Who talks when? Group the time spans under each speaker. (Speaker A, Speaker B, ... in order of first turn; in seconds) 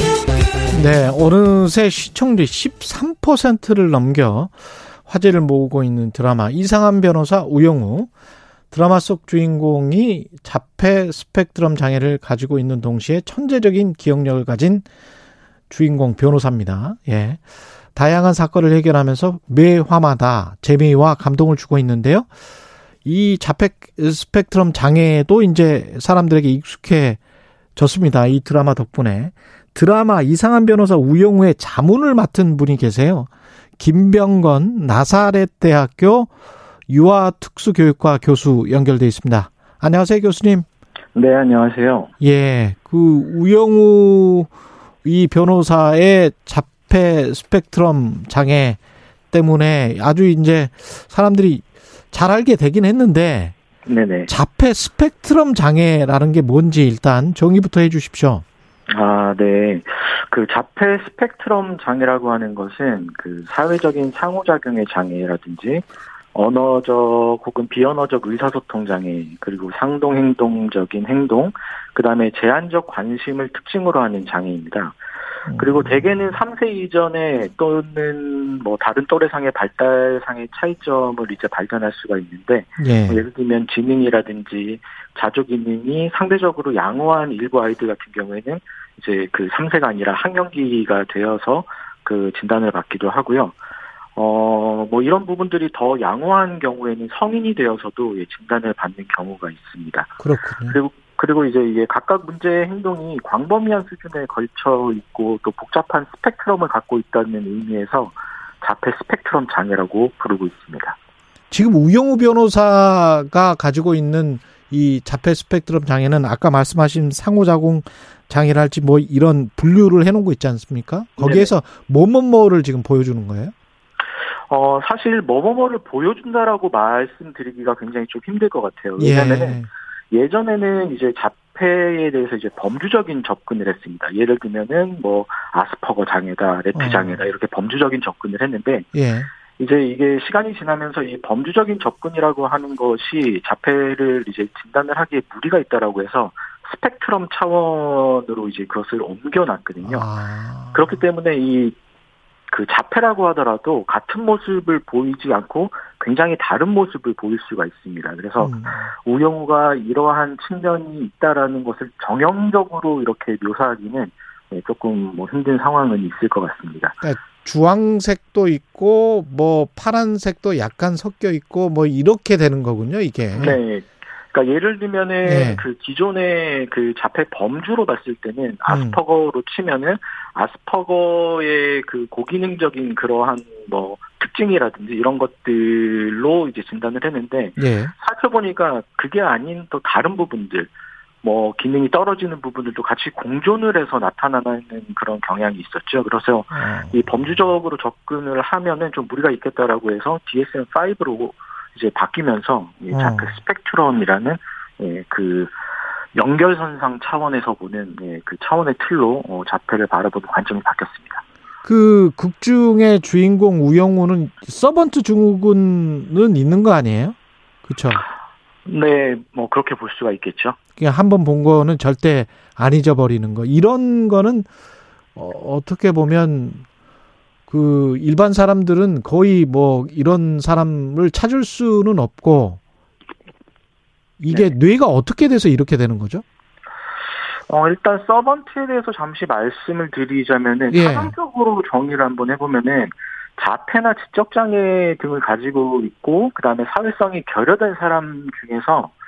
Speaker A: 0.7-4.5, 5.1-8.1, 8.7-14.9, 15.7-17.4, 17.9-22.3, 23.1-27.2, 27.8-36.3, 36.9-40.7, 42.2-44.5, 45.0-48.8, 49.3-53.5, 54.3-58.4, 75.5-76.1, 82.8-83.2, 100.2-100.8, 111.5-123.5, 129.0-129.7, 136.8-137.2, 138.9-139.3, 149.8-151.0, 158.4-158.9, 167.0-173.6, 175.2-175.6, 178.7-179.0, 187.6-187.9, 196.5-197.3, 202.9-203.4, 211.7-217.2, 217.7-218.0, 220.8-224.5, 225.2-226.7, 227.5-232.6, 234.2-236.2, 240.7-241.1
Speaker B: 41.1-42.1, 53.9-54.3, 58.9-75.0, 75.5-93.6, 94.2-100.1, 100.7-111.0, 121.2-121.5, 124.5-138.9, 139.6-150.1, 150.7-151.8, 152.5-167.0, 173.4-190.7, 191.2-205.5, 206.2-211.2, 218.7-220.6, 234.3-234.6, 237.5-248.9